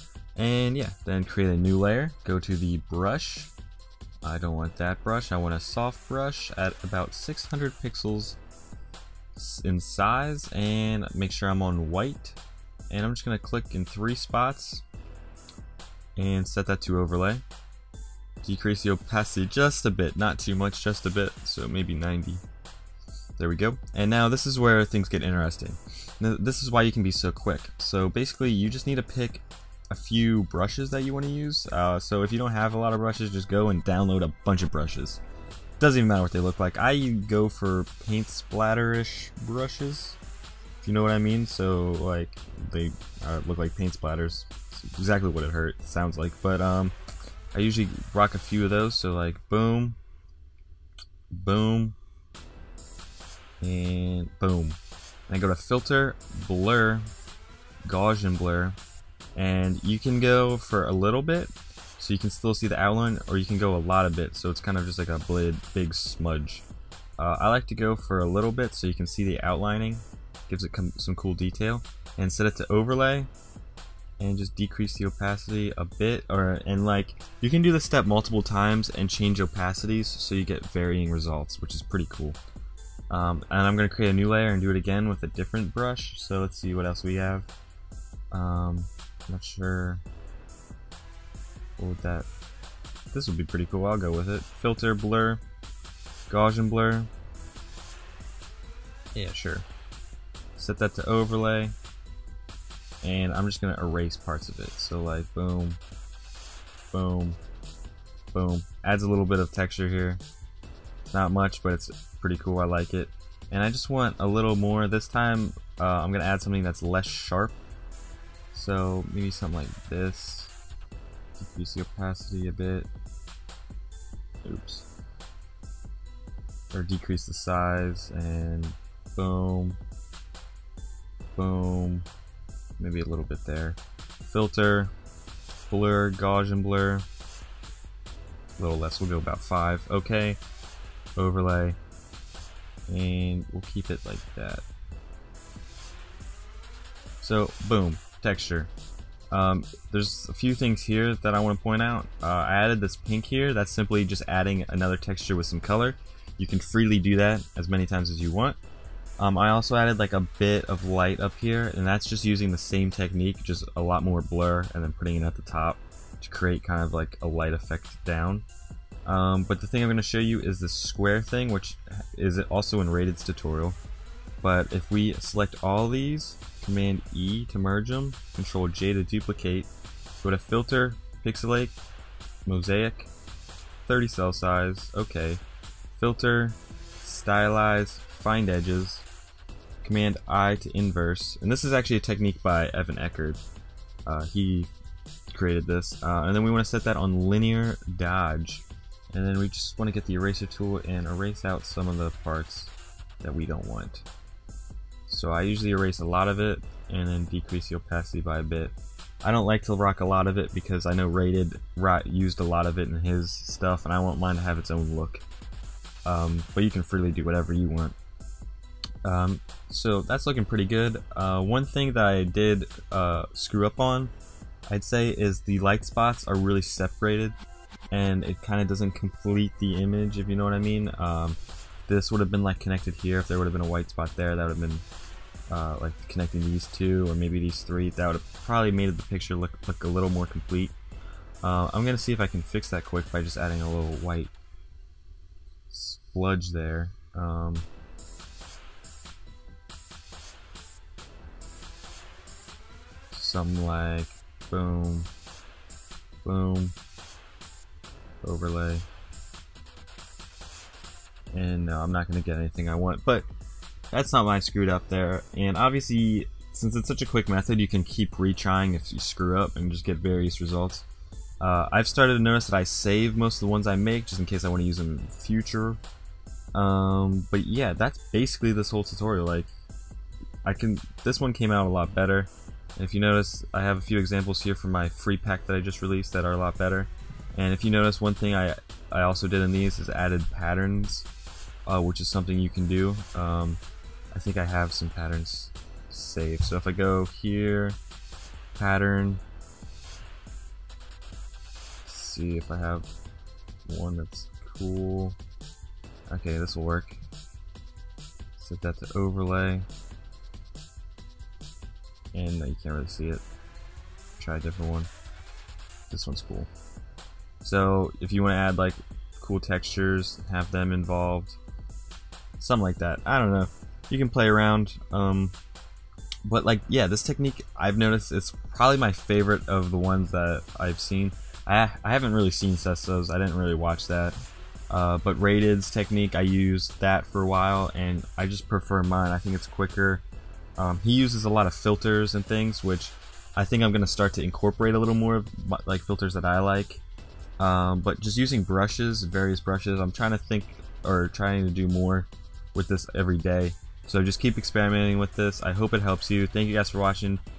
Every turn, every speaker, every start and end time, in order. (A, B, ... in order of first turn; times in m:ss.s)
0:00.4-0:03.5 A
0:04.2-0:08.4 A
0:09.4-0:12.4 A
0:12.9-0:14.8 A
0:16.2-0:17.4 A
0:18.4-0:22.4 A
0:23.4-0:35.2 A
0:35.8-0:40.2 A
0:40.8-0:47.0 A
0:47.5-0:50.0 A
0:51.3-0:52.0 A
0:53.6-0:57.1 A
0:57.8-0:58.8 A
0:59.4-1:06.7 A
1:07.2-1:13.3 A
1:14.2-1:22.4 A
1:23.1-1:27.5 A
1:28.3-1:30.0 A
1:31.8-1:32.3 A
1:33.1-1:35.4 A
1:36.3-1:37.1 A
1:39.2-1:39.7 A
1:40.6-1:41.8 A
1:43.0-1:45.8 A
1:46.9-1:47.4 A
1:48.3-1:50.2 A
1:51.1-1:57.6 A
1:58.5-2:00.6 A
2:01.4-2:02.9 A
2:04.4-2:04.9 A
2:06.7-2:09.8 A
2:11.4-2:12.1 A
2:12.8-2:14.9 A
2:15.7-2:17.0 A
2:18.6-2:20.4 A
2:21.2-2:21.8 A
2:22.9-2:24.6 A
2:27.2-2:28.7 A
2:29.3-2:38.6 A
2:39.2-2:48.5 A
2:49.0-2:53.8 A
2:54.4-2:59.7 A
3:00.2-3:01.8 A
3:02.5-3:03.1 A
3:03.9-3:05.4 A
3:06.0-3:09.1 A
3:09.8-3:13.4 A
3:14.1-3:14.7 A
3:15.3-3:24.0 A
3:25.1-3:35.2 A
3:36.1-3:38.0 A
3:39.0-3:44.1 A
3:44.7-3:47.4 A
3:47.9-3:54.8 A
3:55.5-4:00.8 A
4:01.4-4:04.3 A
4:05.7-4:07.7 A
4:13.1-4:15.1 A
4:16.2-4:16.8 A
4:18.2-4:18.9 A
4:21.3-4:23.3 A
4:23.9-4:30.9 A
4:31.4-4:35.8 A
4:36.5-4:39.5 A
4:40.4-4:51.1 A
4:51.7-4:53.6 A
4:54.1-4:57.8 A
4:58.6-4:59.2 A
5:01.8-5:02.9 A
5:03.7-5:05.2 A
5:06.1-5:07.0 A
5:08.4-5:09.7 A
5:12.1-5:13.2 A
5:14.2-5:14.9 A
5:15.9-5:16.5 A
5:17.4-5:21.4 A
5:22.4-5:25.4 A
5:26.2-5:34.2 A
5:34.7-5:40.0 A
5:40.6-5:46.8 A
5:47.4-5:57.2 A